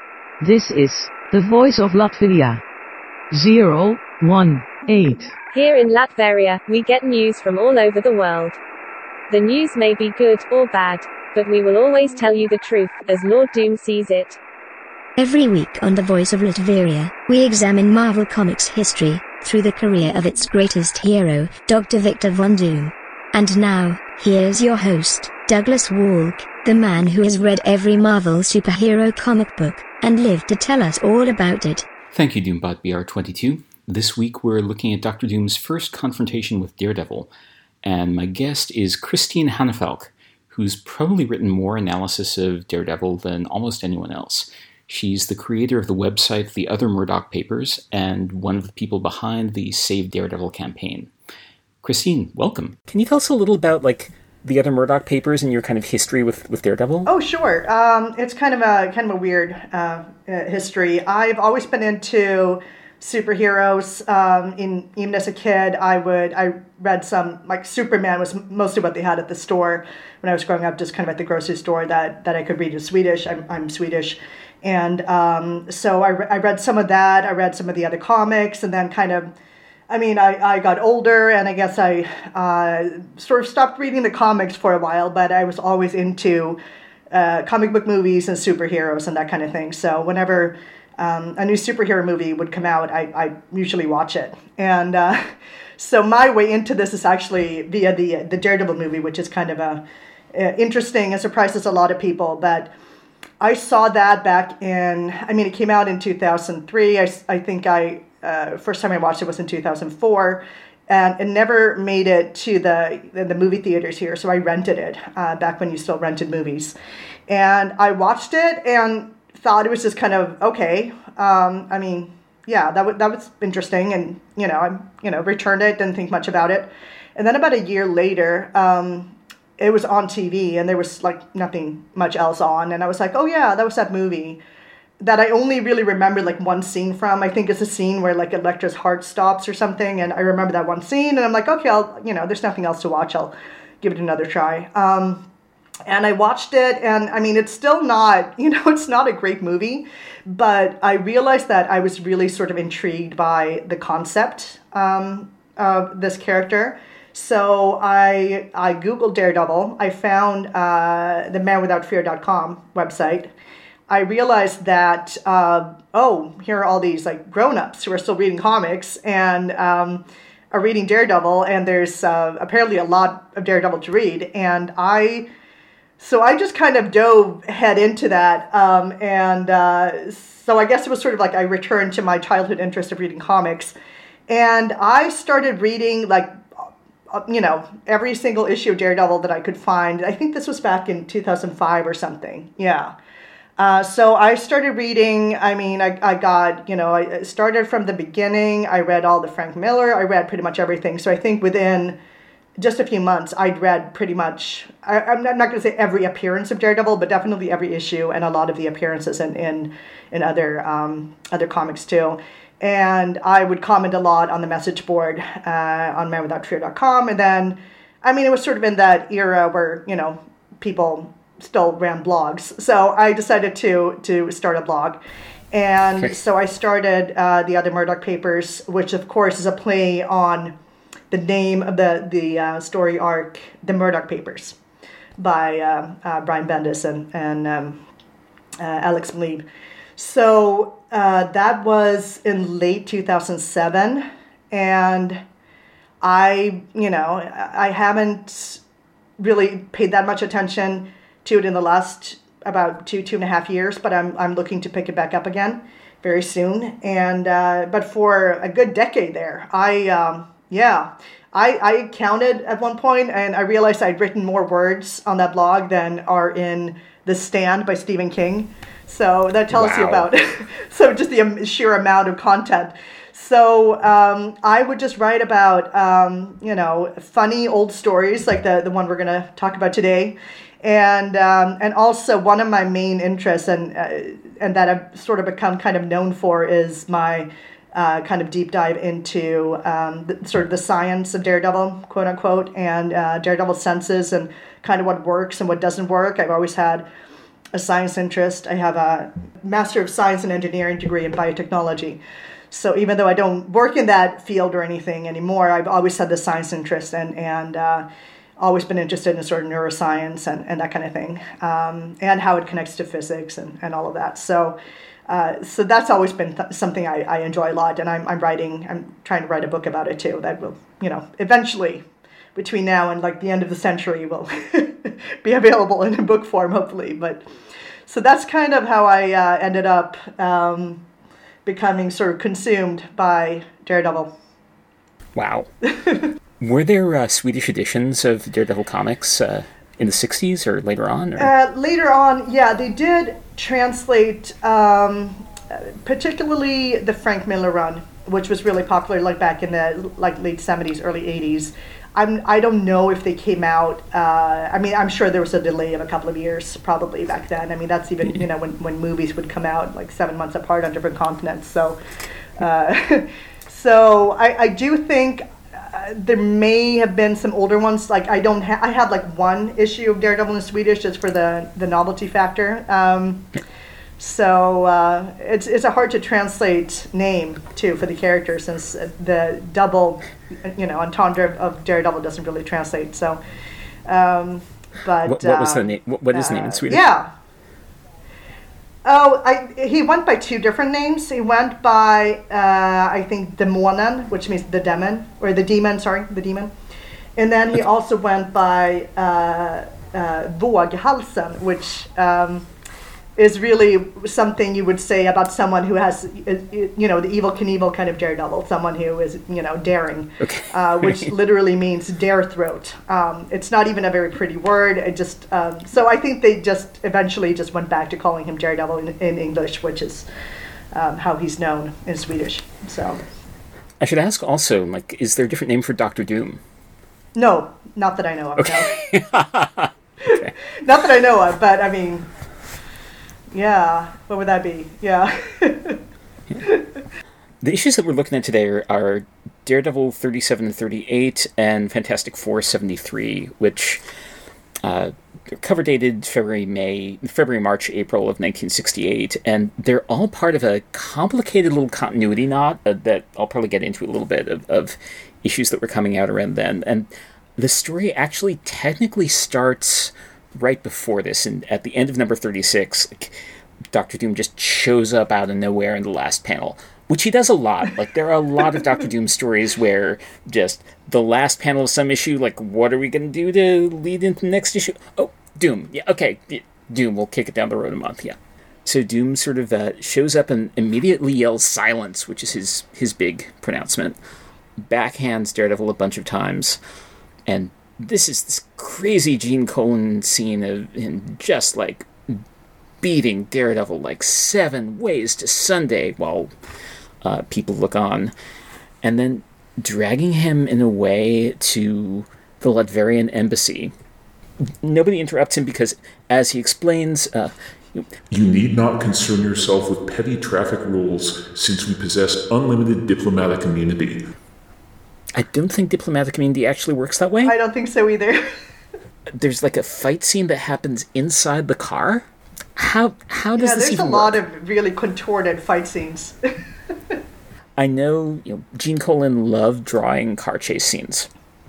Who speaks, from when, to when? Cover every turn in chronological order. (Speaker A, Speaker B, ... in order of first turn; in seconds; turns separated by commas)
Speaker A: 0.4-2.6, Speaker A: 3.3-5.3, Speaker B: 5.5-8.6, Speaker B: 9.3-14.4, Speaker C: 15.2-31.9, Speaker D: 32.1-37.3, Speaker D: 37.8-51.1, Speaker D: 51.8-57.1, Speaker E: 57.0-79.3, Speaker E: 79.9-86.6, Speaker E: 87.1-102.7, Speaker E: 103.4-116.8, Speaker E: 117.3-134.4, Speaker E: 135.0-145.2, Speaker E: 145.8-163.3, Speaker E: 163.9-175.3, Speaker E: 176.0-183.7, Speaker E: 184.3-192.9, Speaker E: 193.6-202.0, Speaker E: 202.6-225.0, Speaker E: 225.5-230.5, Speaker E: 231.1-234.6, Speaker E: 235.2-237.8, Speaker E: 238.6-239.4, Speaker E: 240.0-245.2, Speaker E: 246.0-248.6, Speaker E: 249.2-296.9, Speaker D: 269.5-270.1, Speaker E: 297.5-307.9, Speaker E: 308.4-314.6, Speaker E: 315.1-327.3, Speaker E: 327.9-330.8, Speaker E: 331.4-334.1, Speaker D: 335.1-335.5, Speaker E: 335.6-336.1, Speaker D: 336.4-341.3, Speaker E: 341.2-361.8, Speaker E: 362.4-373.3, Speaker E: 374.0-383.2, Speaker E: 383.9-387.1, Speaker D: 385.0-386.9, Speaker E: 388.8-396.5, Speaker E: 397.1-402.5, Speaker E: 403.1-420.1, Speaker D: 410.2-411.1, Speaker E: 420.7-423.0, Speaker D: 423.8-426.4, Speaker E: 427.1-428.8, Speaker D: 428.4-430.3, Speaker E: 430.0-432.1, Speaker E: 433.3-435.8, Speaker E: 436.4-436.8, Speaker D: 437.4-443.8, Speaker D: 444.6-463.1, Speaker D: 463.7-484.0, Speaker D: 484.6-486.6, Speaker D: 487.3-492.2, Speaker D: 492.8-496.3, Speaker D: 497.0-498.1, Speaker D: 498.8-503.7, Speaker D: 504.6-507.9, Speaker F: 508.1-514.0, Speaker D: 515.1-517.3, Speaker E: 517.2-518.2, Speaker D: 519.1-524.2, Speaker E: 523.4-526.2, Speaker E: 526.7-527.0, Speaker D: 527.6-531.1